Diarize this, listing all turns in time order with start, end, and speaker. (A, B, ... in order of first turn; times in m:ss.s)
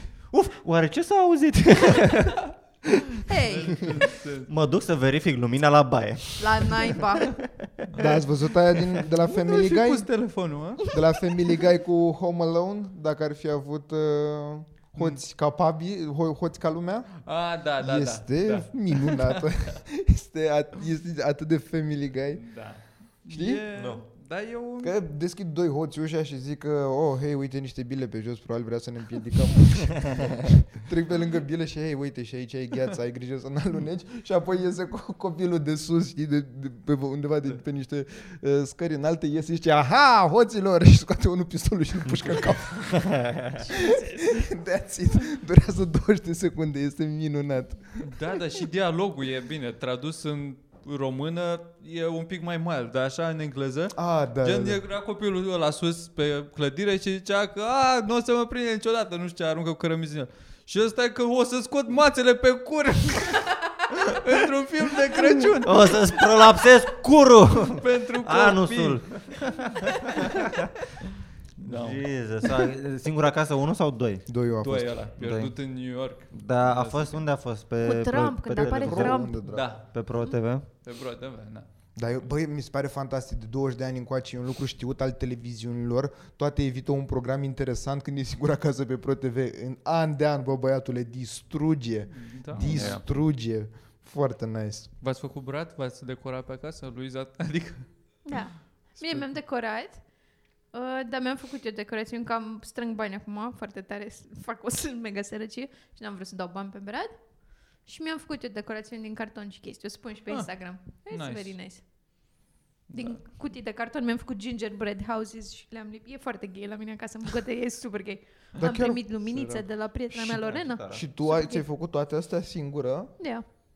0:00.3-0:03.2 A
0:03.2-0:03.9 B
0:03.3-0:04.5 C
0:03.8-0:07.8 A
0:06.4-0:07.4 B
0:07.9-0:08.2 C
0:08.0-0:10.1 D
0:09.3-0:11.0 C
0:10.9-0:17.2 D
0:14.9-0:15.2 C
0:17.2-0:19.6 C
0:17.8-0:22.5 D
0:22.3-0:24.9 C
0:23.3-0:23.6 D
0:23.7-0:24.0 A
0:24.8-0:43.0 D
0:42.9-0:43.6 A
0:43.6-0:48.1 D
0:48.0-1:06.1 C
0:53.9-0:54.8 D
1:05.6-1:10.7 A
1:07.7-1:09.3 C
1:11.6-1:12.0 C
1:11.6-1:14.2 A
1:14.3-1:14.9 D
1:14.6-1:17.2 C
1:15.2-1:15.5 A
1:16.3-1:20.7 A
1:17.8-1:19.4 B
1:18.5-1:19.7 D
1:19.4-1:19.8 C
1:20.8-1:21.6 C
1:22.0-1:34.9 D
1:32.1-1:33.1 C
1:32.6-1:33.0 A
1:35.0-1:37.9 C
1:38.2-1:40.0 B
1:39.0-1:39.2 C
1:40.7-1:47.2 B
1:47.8-1:51.8 B
1:51.1-1:51.6 C
1:52.9-2:01.6 B
1:58.6-1:59.0 D
1:59.2-1:59.6 C
2:00.1-2:01.0 A
2:00.9-2:03.1 D
2:03.2-2:03.4 B